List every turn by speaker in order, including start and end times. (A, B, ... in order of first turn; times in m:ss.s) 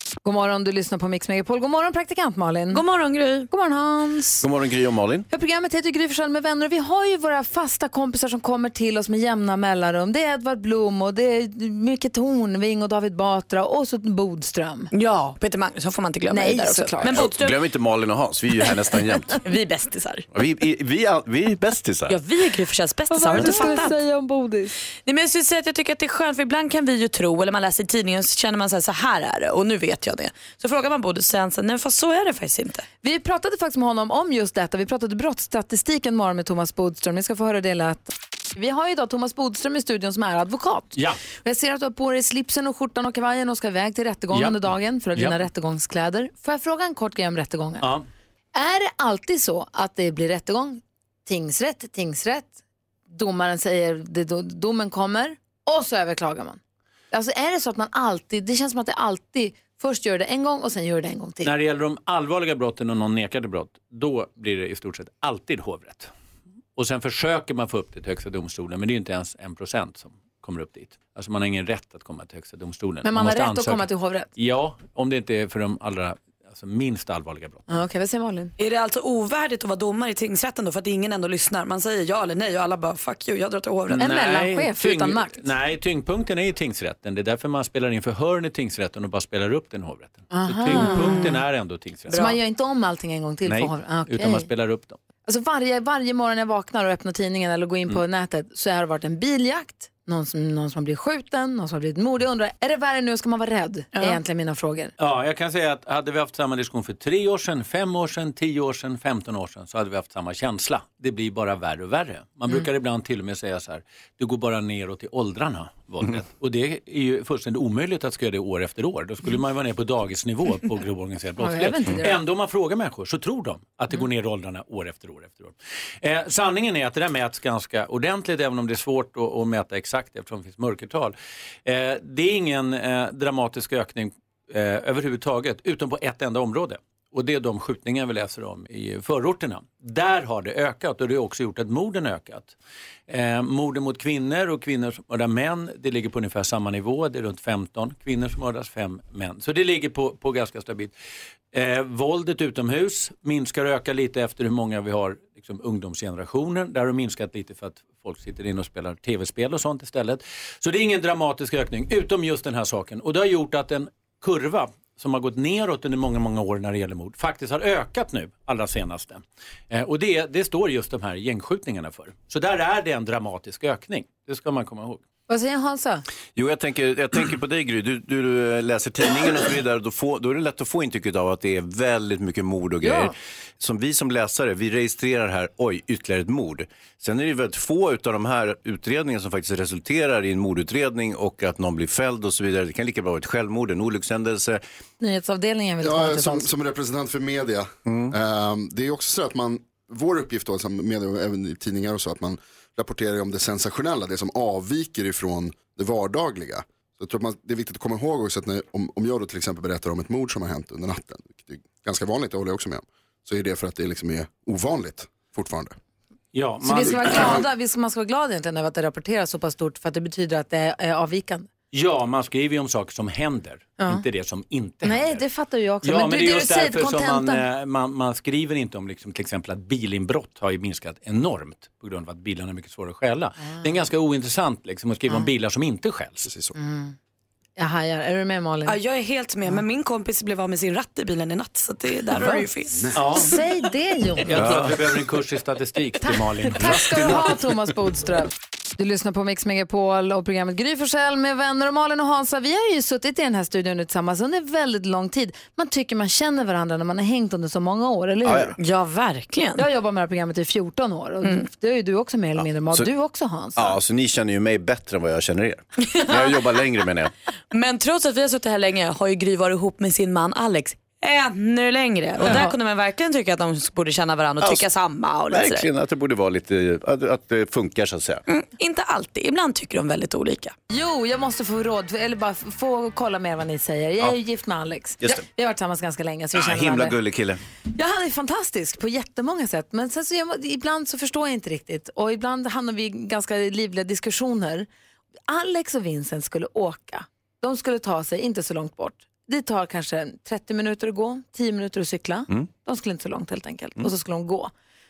0:00.2-0:02.8 A
0:02.7-0:03.5 B
0:03.5-0:04.4 A
0:04.4-0:05.2 C
0:05.3-0:14.9 A
0:14.9-0:17.6 B
0:16.3-0:17.3 A
0:17.1-0:19.4 C
0:19.4-0:20.2 B
0:20.3-0:22.2 C
0:22.1-0:24.0 B
0:23.1-0:24.7 A
0:23.4-0:23.7 C
0:25.0-0:32.8 B
0:33.0-0:47.9 A
0:44.3-0:45.4 D
0:48.5-0:52.5 A
0:53.1-0:56.6 A
0:57.1-1:01.5 A
1:01.4-1:06.1 D
1:06.8-1:17.6 D
1:13.0-1:14.3 A
1:17.7-1:18.5 A
1:18.6-1:24.0 B
1:23.9-1:32.2 D
1:24.0-1:25.4 A
1:30.3-1:31.4 A
1:30.7-1:31.4 B
1:32.1-1:32.4 B
1:32.1-1:34.4 A
1:33.4-1:35.0 D
1:35.2-1:44.9 A
1:45.0-2:22.5 D
2:01.4-2:02.2 A
2:23.1-2:30.9 D
2:31.5-2:55.0 D
2:55.3-2:56.0 A
2:56.4-3:14.6 C
3:02.8-3:03.1 A
3:15.0-3:16.5 A
3:15.8-3:35.7 E
3:17.8-3:18.1 C
3:36.3-3:37.4 D
3:36.6-3:41.5 A
3:41.7-3:45.2 D
3:44.8-3:47.4 A
3:45.8-3:56.3 D
3:56.2-3:56.5 E
3:56.5-3:56.9 A
3:57.6-3:58.8 A
3:58.6-4:02.9 B
4:02.9-4:03.4 D
4:03.1-4:04.4 A
4:04.2-4:07.2 D
4:04.3-4:04.8 C
4:06.5-4:18.6 A
4:18.2-4:18.6 C
4:18.6-4:19.6 B
4:19.6-4:23.8 A
4:21.2-4:21.5 B
4:23.6-4:27.1 C
4:25.9-4:26.2 B
4:27.5-4:35.6 B
4:32.2-4:32.5 A
4:34.4-4:34.7 C
4:35.3-4:38.2 C
4:38.3-4:40.5 B
4:40.7-4:46.9 A
4:46.3-4:47.4 C
4:47.7-4:54.7 A
4:55.3-5:04.5 A